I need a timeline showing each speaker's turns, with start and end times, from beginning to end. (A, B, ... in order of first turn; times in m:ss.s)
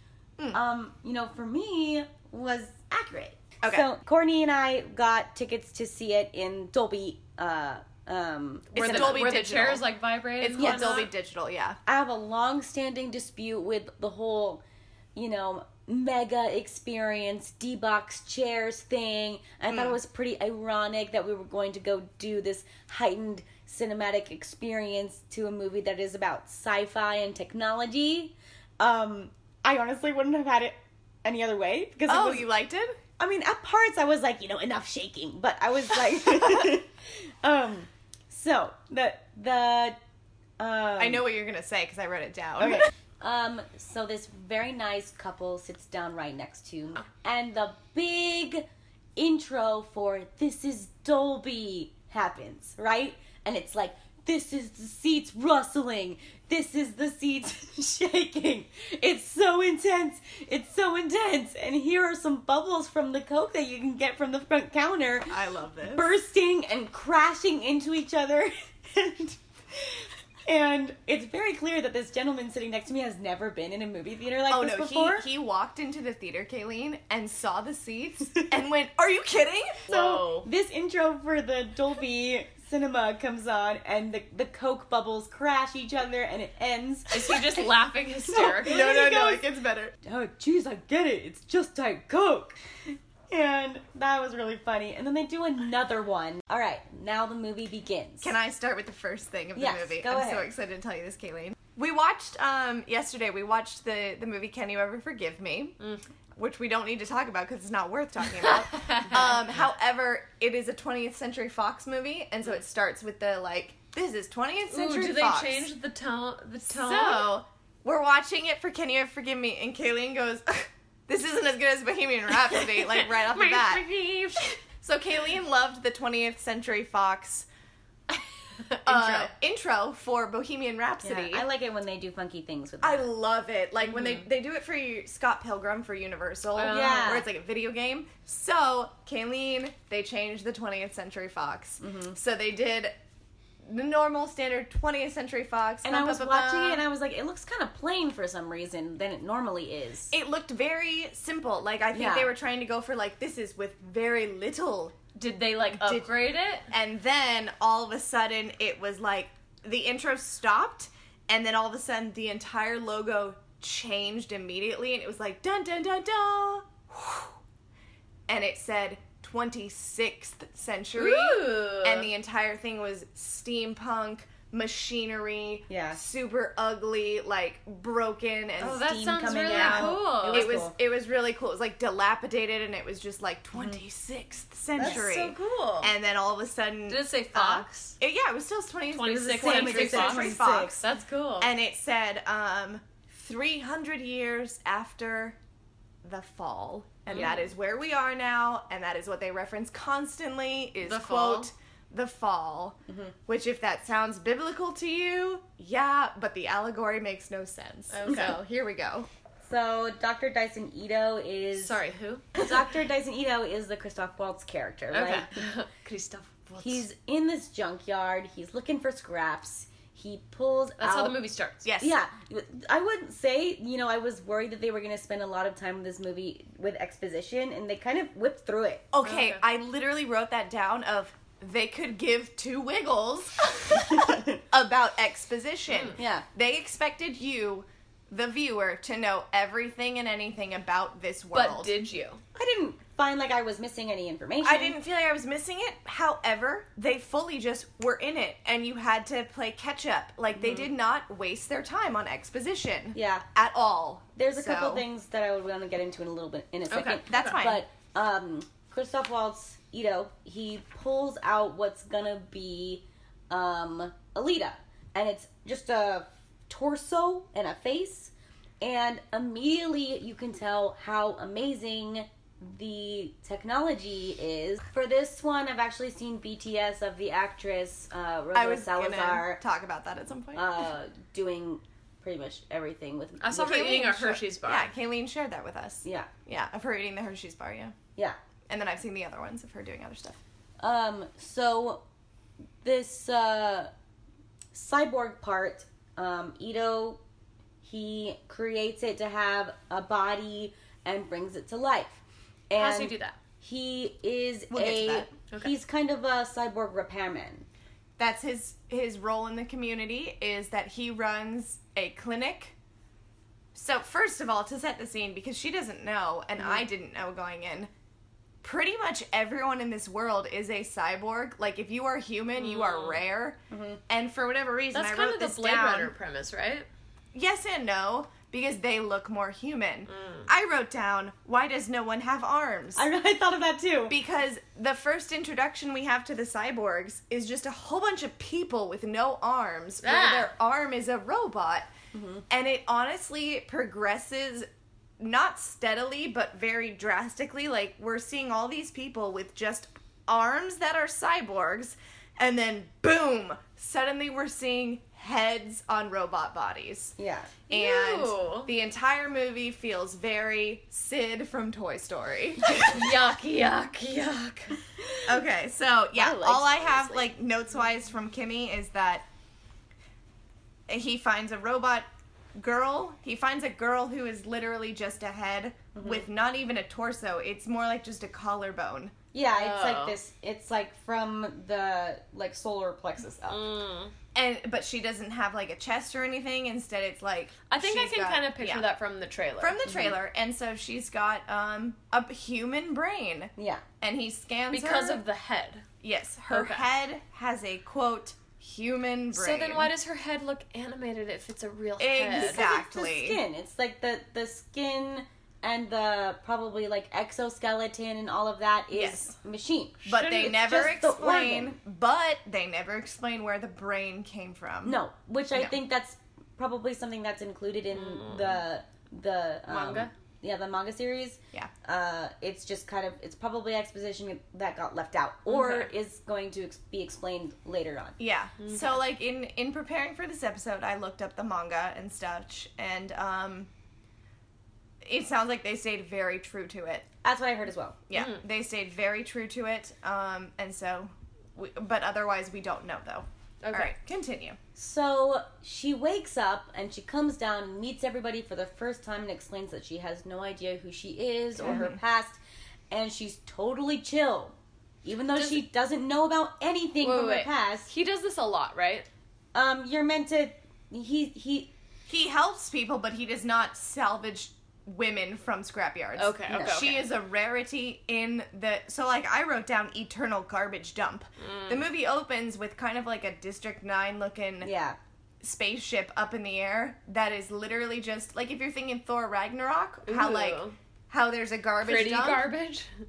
0:00.5-0:09.3 A
0:03.6-0:03.9 B
0:08.7-0:11.1 C
0:08.8-0:09.8 B
0:10.4-0:11.8 B
0:10.6-0:11.1 A
0:11.9-0:14.6 A
0:15.2-0:32.5 A
0:19.7-0:20.0 B
0:32.1-0:33.0 B
0:33.2-0:40.0 A
0:40.6-0:41.3 A
0:41.0-0:42.9 B
0:42.6-1:15.3 A
1:05.3-1:06.0 B
1:14.5-1:19.9 B
1:19.9-1:20.5 C
1:19.9-1:27.6 A
1:27.1-1:28.9 C
1:28.3-1:29.4 A
1:28.6-1:29.9 B
1:30.0-1:38.4 A
1:38.2-1:45.8 B
1:39.6-1:40.5 A
1:46.4-1:55.7 B
1:48.5-1:49.4 C
1:54.7-1:57.3 C
1:56.7-2:07.5 B
2:02.8-2:04.6 C
2:08.6-2:09.3 C
2:08.9-2:11.4 B
2:11.0-2:13.1 A
2:12.8-2:22.9 B
2:13.9-2:14.3 C
2:16.6-2:17.2 C
2:16.6-2:17.3 A
2:21.8-2:22.2 A
2:23.6-2:26.8 B
2:25.8-2:30.2 A
2:30.1-2:35.0 B
2:31.9-2:32.3 A
2:35.2-2:36.7 C
2:35.7-2:36.1 B
2:36.7-2:47.4 B
2:48.3-3:10.8 B
2:51.0-2:52.1 C
2:55.7-2:56.0 A
2:58.6-3:00.7 C
2:58.7-3:00.8 A
3:04.8-3:05.1 A
3:04.8-3:05.9 C
3:06.9-3:08.0 C
3:08.9-3:11.5 C
3:09.1-3:10.8 A
3:11.4-3:15.4 B
3:16.0-3:29.1 B
3:17.1-3:17.5 C
3:20.8-3:21.5 C
3:22.9-3:23.1 A
3:27.9-3:28.4 C
3:29.4-3:31.8 A
3:31.6-3:32.3 C
3:32.3-3:35.5 A
3:34.9-3:36.8 C
3:36.6-3:41.2 A
3:40.8-3:41.6 C
3:41.6-3:42.0 B
3:41.8-3:48.9 A
3:48.9-4:01.7 B
3:49.0-3:49.4 C
3:53.9-3:54.4 A
3:55.7-3:56.0 C
3:56.0-3:56.2 A
4:01.3-4:02.2 C
4:02.4-4:04.8 A
4:04.4-4:14.8 B
4:10.4-4:10.7 A
4:13.0-4:13.3 A
4:14.2-4:39.4 A
4:16.7-4:17.4 C
4:17.1-4:17.6 B
4:38.3-4:40.6 B
4:40.3-4:43.8 A
4:43.2-4:44.7 C
4:43.4-4:47.8 B
4:45.8-4:46.1 A
4:48.5-4:50.2 B
4:50.6-4:51.8 A
4:52.6-4:53.7 A
4:54.5-4:57.0 A
4:57.6-5:07.5 A
5:02.6-5:03.2 C
5:04.5-5:05.1 B
5:08.0-5:12.6 B
5:13.6-5:17.7 B
5:16.4-5:16.6 A
5:18.4-5:25.9 B
5:22.4-5:23.0 C
5:23.5-5:23.8 A
5:24.7-5:26.7 C
5:27.1-5:32.8 B
5:29.9-5:30.3 C
5:32.8-5:34.0 A
5:33.9-5:41.7 B
5:39.8-5:40.3 C
5:41.9-5:42.2 A
5:42.3-5:44.5 B
5:45.0-5:57.0 B
5:57.0-5:57.3 A
5:57.5-5:58.5 C
5:57.5-6:02.8 B
6:02.5-6:04.6 C
6:04.8-6:05.1 A
6:05.1-6:09.0 B
6:06.0-6:07.1 A
6:10.7-6:19.0 B
6:15.8-6:16.1 A
6:19.1-6:23.5 A
6:19.3-6:20.0 C
6:23.3-6:23.9 C
6:24.2-6:28.7 B
6:27.5-6:29.6 C
6:29.4-6:35.0 B
6:29.7-6:30.0 A
6:33.4-6:33.6 A
6:34.5-6:35.6 C
6:35.8-6:39.7 B
6:36.3-6:36.7 C
6:39.1-6:42.4 C
6:41.8-6:43.2 B
6:42.2-6:51.6 A
6:48.7-6:49.1 B
6:49.9-6:54.8 B
6:49.9-6:50.3 C
6:54.6-7:08.0 A
6:57.7-6:58.4 C
6:59.5-6:59.9 C
7:05.3-7:05.7 C
7:08.0-7:13.5 B
7:08.4-7:08.8 C
7:14.8-7:16.9 B
7:17.0-7:17.8 A
7:17.9-7:24.4 B
7:17.9-7:18.2 C
7:23.4-7:23.8 C
7:24.6-7:32.2 A
7:31.4-7:31.8 B
7:32.7-7:37.7 A
7:35.2-7:35.4 C
7:36.8-7:38.9 C
7:39.3-7:41.5 A
7:41.9-7:54.5 B
7:46.0-7:46.9 C
7:46.3-7:46.6 A
7:51.2-7:51.7 C
7:54.4-7:54.8 A
7:55.2-8:02.3 B
7:59.9-8:00.6 C
8:01.6-8:02.7 C